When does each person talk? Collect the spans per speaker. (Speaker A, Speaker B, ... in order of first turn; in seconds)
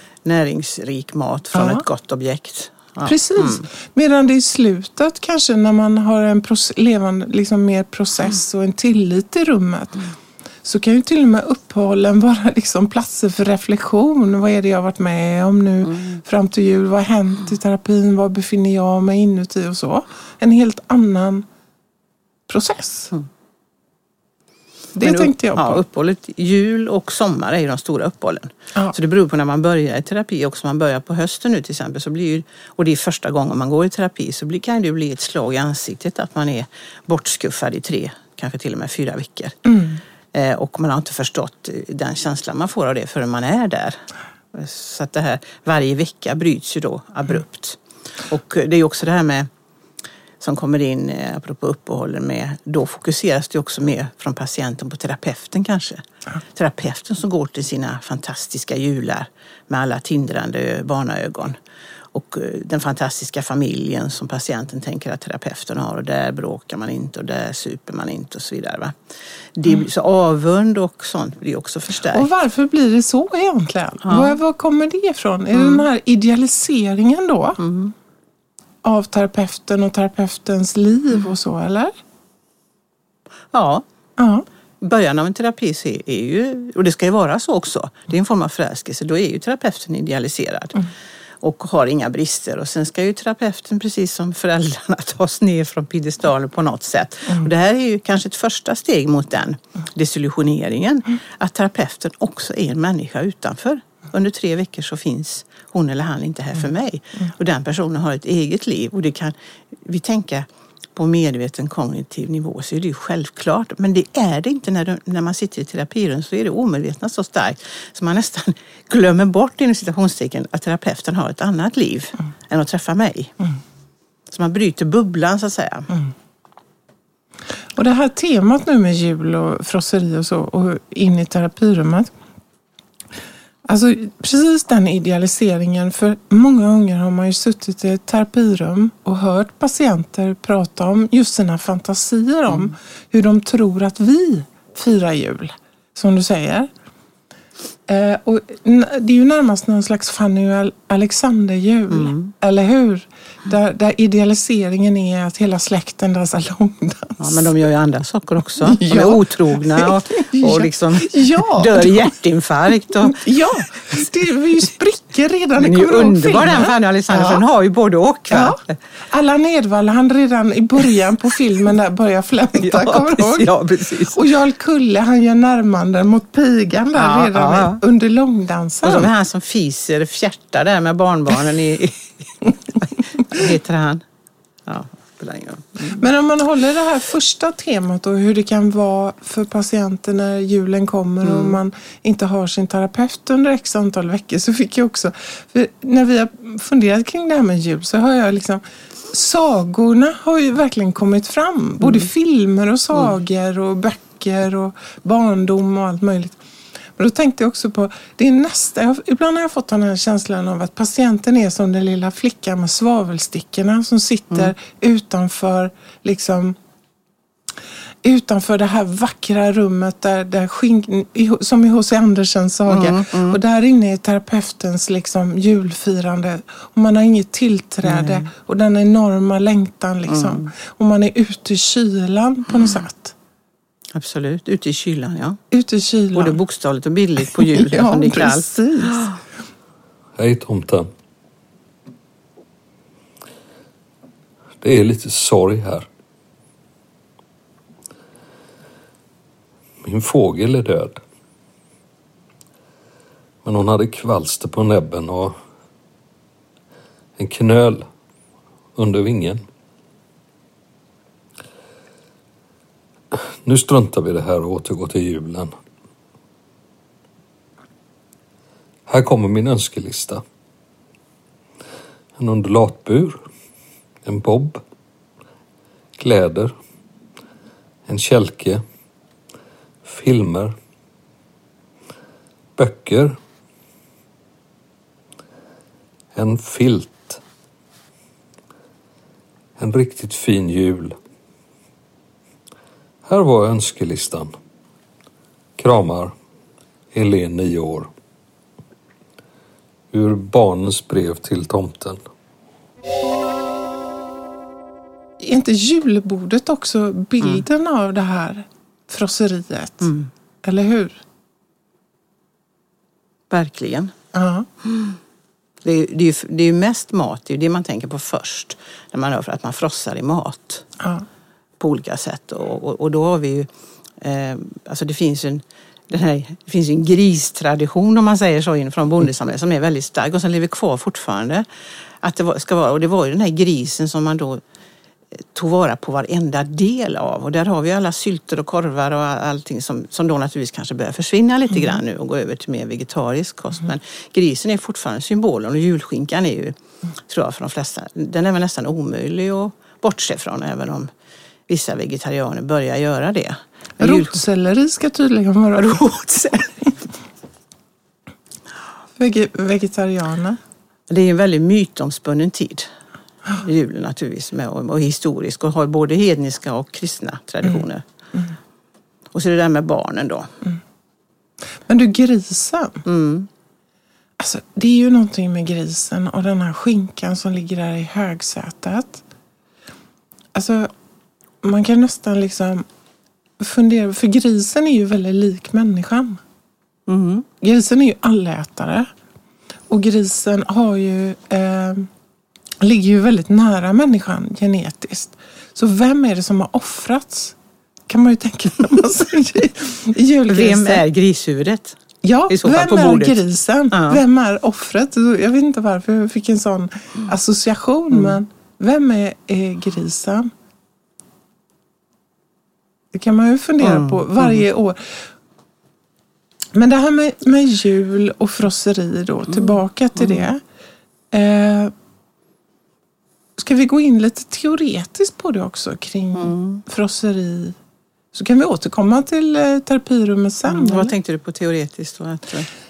Speaker A: 0.2-3.6, 25.0-39.6, 40.3-49.5, 50.4-61.6, 62.1-68.9, 69.5-72.3, 74.0-74.4, 75.5-75.8, 77.6-77.9, 83.5-83.8, 84.8-90.8, 91.4-123.3, 124.3-125.9, 151.9-152.3, 157.2-163.2, 165.6-168.6, 172.6-174.2, 176.9-177.8, 178.8-184.0, 184.7-186.1, 191.2-191.6, 222.7-223.4, 227.8-228.3, 230.1-230.5, 233.9-235.4, 236.1-239.0, 309.8-310.1, 313.3-313.9, 315.6-320.6, 321.6-323.5, 324.0-331.4, 332.0-334.4, 335.3-346.6, 347.1-350.9, 351.5-354.2, 355.5-356.8, 360.9-362.7, 363.3-367.8, 369.1-370.3, 372.9-373.3, 386.9-387.2, 400.3-401.8, 402.3-403.2, 403.7-404.0, 413.6-414.4, 420.0-420.3, 426.1-426.6, 430.5-432.5
Speaker B: 1.5-1.8, 3.0-10.1, 10.6-21.4, 22.5-23.1, 24.9-25.8, 39.6-40.0, 72.1-77.6, 78.8-81.9, 84.2-84.4, 127.8-132.1, 133.7-146.7, 147.9-157.5, 158.6-162.1, 163.0-167.4, 168.3-173.5, 174.1-179.1, 185.9-206.4, 207.0-216.6, 218.0-233.1, 235.5-236.4, 237.4-239.1, 305.2-309.9, 310.4-311.0, 314.1-314.5, 320.8-321.0, 353.8-355.8, 359.0-360.4, 371.7-372.8, 374.2-379.0, 380.4-380.7, 381.4-382.6, 383.4-386.2, 387.4-388.9, 389.7-391.9, 392.6-397.4, 397.9-400.8, 402.0-410.3, 412.9-415.0, 416.5-420.4, 421.1-421.7, 423.4-427.6, 428.1-430.9
Speaker C: 240.2-240.9, 244.6-245.9, 249.8-251.0, 253.4-255.3, 257.2-257.9, 258.8-259.4, 263.1-265.5, 268.9-270.2, 272.2-273.2, 274.0-274.6, 276.0-276.5, 277.9-278.6, 279.9-280.5, 282.6-283.2, 286.1-287.2, 289.6-291.0, 293.0-294.3, 295.6-296.1, 296.9-297.9, 299.9-302.0